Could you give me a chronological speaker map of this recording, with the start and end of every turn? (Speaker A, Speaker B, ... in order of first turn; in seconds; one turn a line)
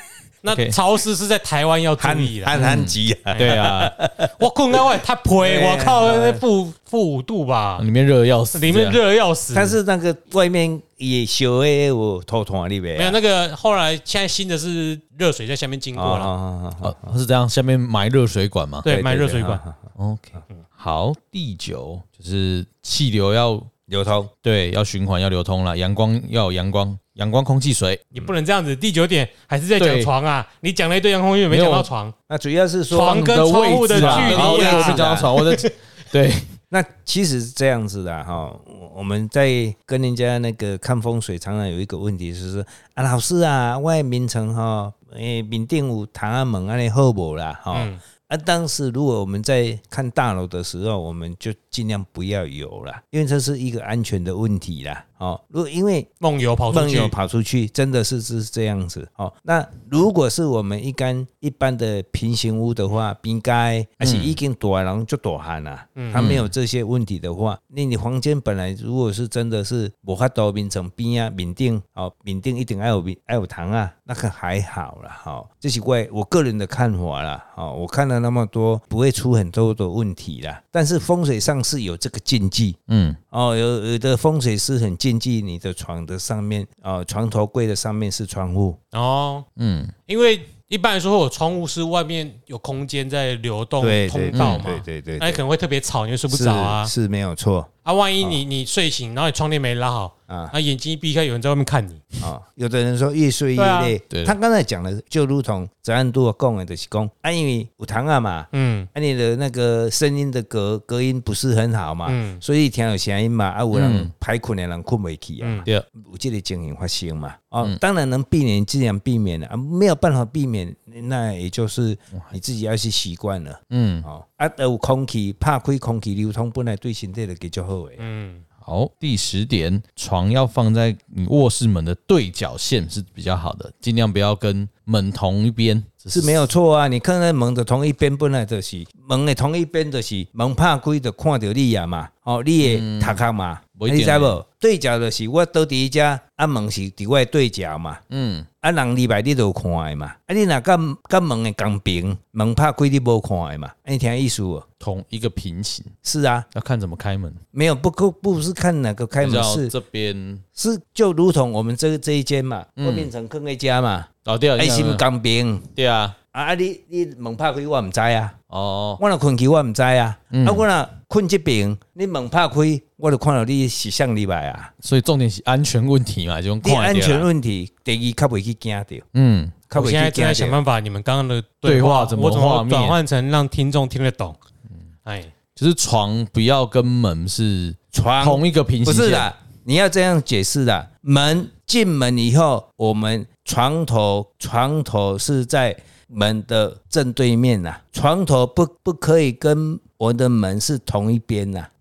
Speaker A: 0.4-2.6
Speaker B: 0.5-0.8
Speaker C: 2.0-4.3
Speaker B: 2.5-4.0
Speaker A: 3.3-3.7
Speaker A: 4.4-7.9
Speaker C: 5.4-6.4
Speaker B: 7.8-9.0
Speaker A: 8.5-9.8
Speaker C: 9.5-13.2
Speaker A: 13.0-16.3
Speaker C: 16.0-17.0
Speaker B: 16.8-18.9
Speaker A: 18.8-19.6
Speaker C: 18.9-19.8
Speaker B: 20.0-23.7
Speaker C: 23.9-24.3
Speaker B: 24.4-28.1
Speaker A: 28.1-32.1
Speaker B: 29.8-30.1
Speaker B: 31.5-31.9
Speaker C: 32.3-33.3
Speaker A: 32.9-35.0
Speaker B: 33.1-36.5
Speaker C: 33.9-35.4
Speaker C: 36.7-56.1
Speaker A: 47.7-48.0
Speaker A: 56.2-57.1
Speaker C: 56.7-82.8
Speaker B: 64.0-64.4
Speaker A: 66.0-66.3
Speaker B: 66.1-66.5
Speaker B: 82.9-83.2
Speaker C: 83.3-88.8
Speaker A: 88.9-89.5
Speaker B: 89.6-89.9
Speaker A: 90.1-96.9
Speaker C: 93.8-95.4
Speaker B: 94.3-94.7
Speaker C: 96.3-97.7
Speaker A: 97.8-102.1
Speaker C: 100.3-100.5
Speaker C: 102.2-128.0
Speaker A: 103.6-103.9
Speaker B: 104.1-104.4
Speaker A: 108.5-108.9
Speaker A: 112.1-112.4
Speaker B: 113.7-114.1
Speaker A: 115.4-115.7
Speaker B: 123.7-124.1
Speaker A: 128.0-128.4
Speaker B: 128.6-136.5
Speaker C: 136.1-148.0
Speaker B: 142.6-143.2
Speaker B: 143.8-144.4
Speaker B: 148.1-148.5
Speaker C: 148.6-154.7
Speaker B: 154.8-155.9
Speaker C: 156.1-156.5
Speaker B: 156.5-157.4
Speaker C: 157.5-159.7
Speaker B: 159.2-160.4
Speaker C: 160.6-165.7
Speaker B: 162.8-163.1
Speaker B: 164.3-165.0
Speaker B: 165.8-166.2
Speaker C: 166.3-168.4
Speaker B: 168.5-169.0
Speaker C: 169.0-174.7
Speaker B: 170.3-170.7
Speaker B: 174.8-177.3
Speaker C: 176.6-179.1
Speaker B: 179.1-179.6
Speaker C: 179.7-180.6
Speaker A: 179.7-184.4
Speaker B: 181.6-183.0
Speaker A: 185.1-185.3
Speaker B: 185.6-189.3
Speaker C: 187.9-201.7